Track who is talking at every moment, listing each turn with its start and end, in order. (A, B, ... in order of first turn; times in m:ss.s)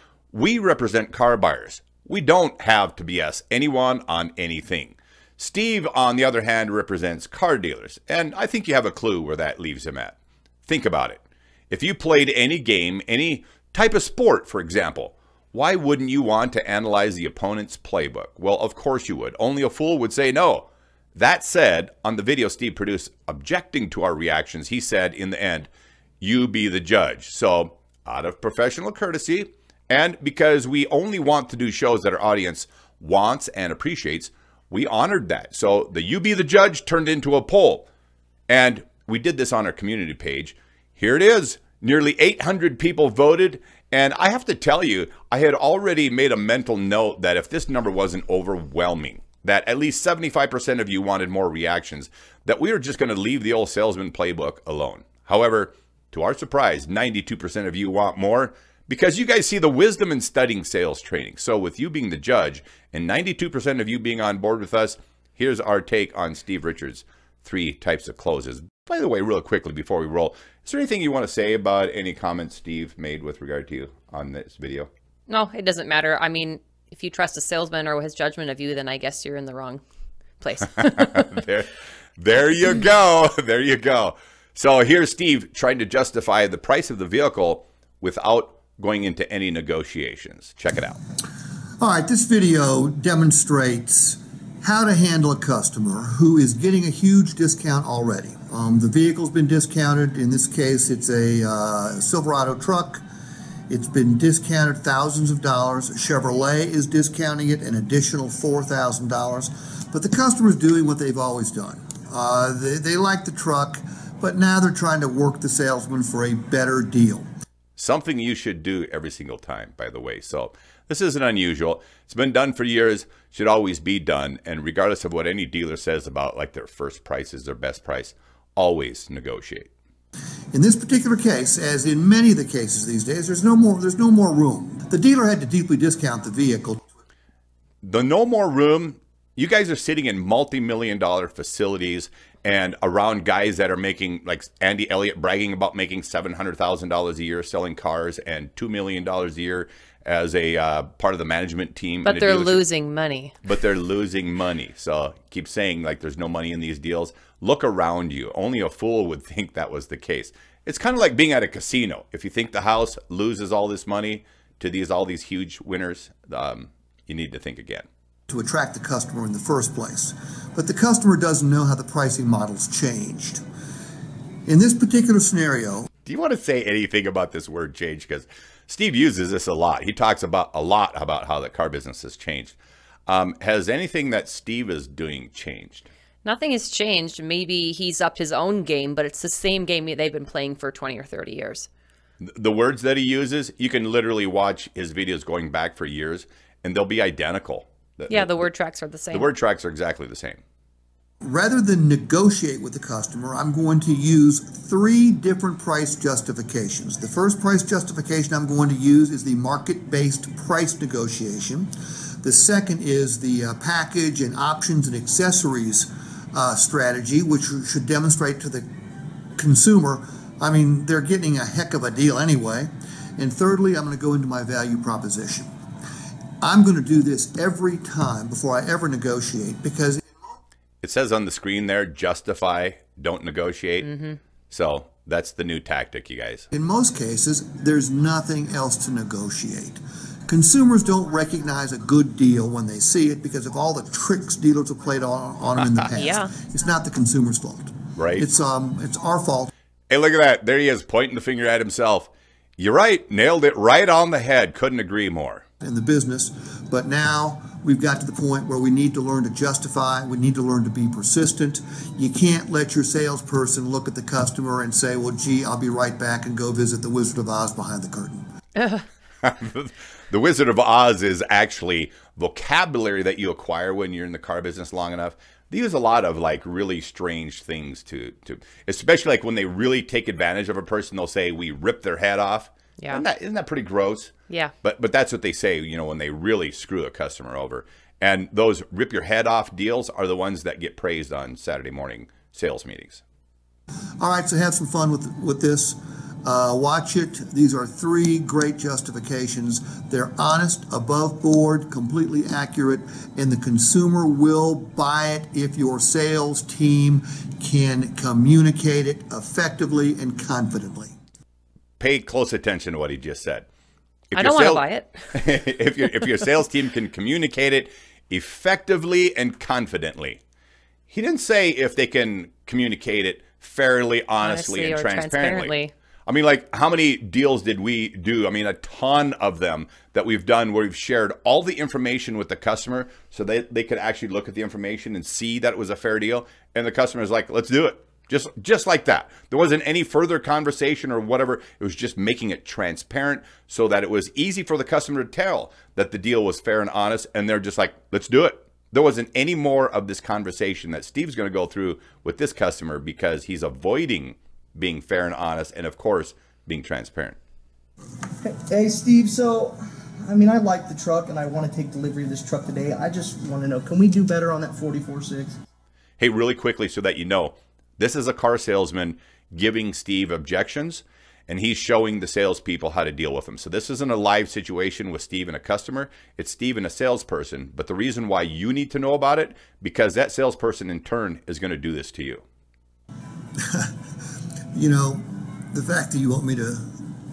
0:00.3-0:10.1 A
0:10.6-0:25.7 A
0:26.2-0:37.8 A
0:38.5-1:14.9 A
1:15.3-1:19.8 B
1:20.4-1:21.3 B
1:20.8-1:31.0 A
1:31.8-1:43.0 C
1:43.7-1:57.3 C
1:57.8-2:09.7 A
2:10.5-2:16.8 C
2:17.8-2:32.6 A
2:32.0-2:33.3 B
2:33.4-2:47.9 A
2:48.3-2:53.4 C
2:54.4-2:55.9 C
2:56.0-3:02.6 A
3:03.1-3:05.9 A
3:06.2-3:11.7 B
3:12.2-3:18.5 A
3:18.1-3:19.3 B
3:19.1-3:20.4 A
3:21.2-3:38.7 C
3:39.4-3:45.5 C
3:46.4-3:50.0 C
3:50.8-3:53.9 A
3:53.9-3:54.2 B
3:54.5-3:56.5 A
3:56.5-4:09.5 C
4:05.9-4:06.3 B
4:08.0-4:08.2 A
4:09.9-4:15.4 A
4:15.6-4:28.2 C
4:28.6-4:28.8 B
4:29.2-4:44.1 A
4:44.6-4:53.0 A
4:54.0-5:10.9 C
5:11.8-5:13.5 A
5:14.1-5:20.2 A
5:14.1-5:15.0 B
5:20.9-5:25.5 A
5:24.2-5:25.7 B
5:26.1-5:57.2 A
5:58.2-6:05.4 D
6:06.0-6:22.2 A
6:23.4-6:23.8 C
6:24.5-6:26.8 C